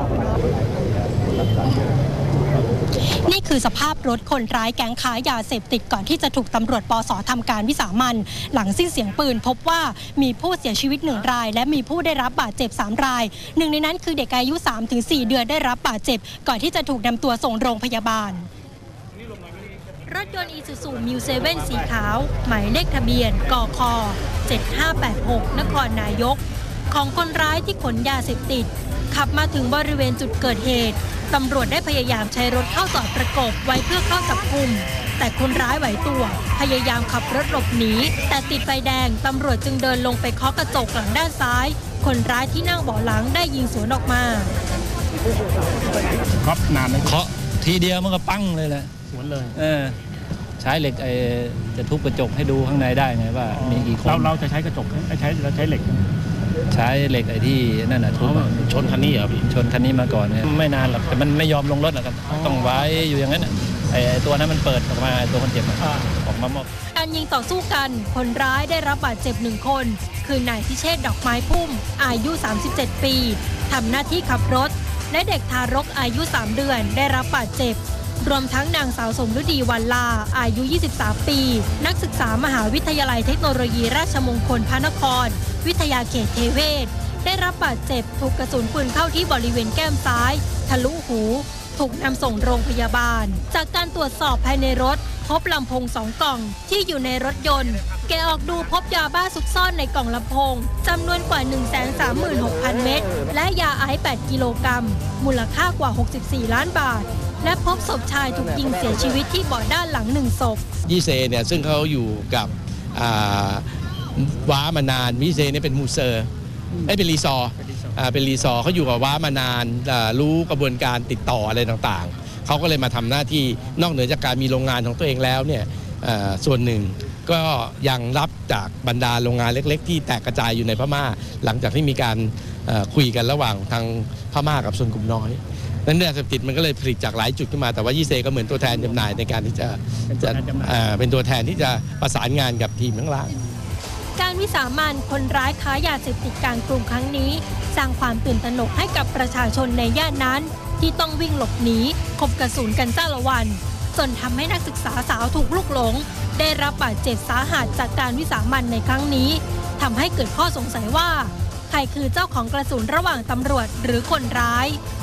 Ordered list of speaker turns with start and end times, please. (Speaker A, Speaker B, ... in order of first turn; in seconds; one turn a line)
Speaker A: 3.1-18.5
Speaker A: 20.1-44.5
Speaker B: 46.4-47.2
Speaker C: 47.0-48.9
Speaker B: 49.1-49.5
Speaker C: 49.5-50.0
Speaker C: 50.6-54.3
Speaker B: 53.6-56.0
Speaker C: 56.7-66.7
Speaker D: 58.5-59.4
Speaker A: 66.9-110.6
Speaker D: 110.9-116.3
Speaker D: 116.8-143.3
Speaker B: 140.1-140.8
Speaker A: 144.2-164.8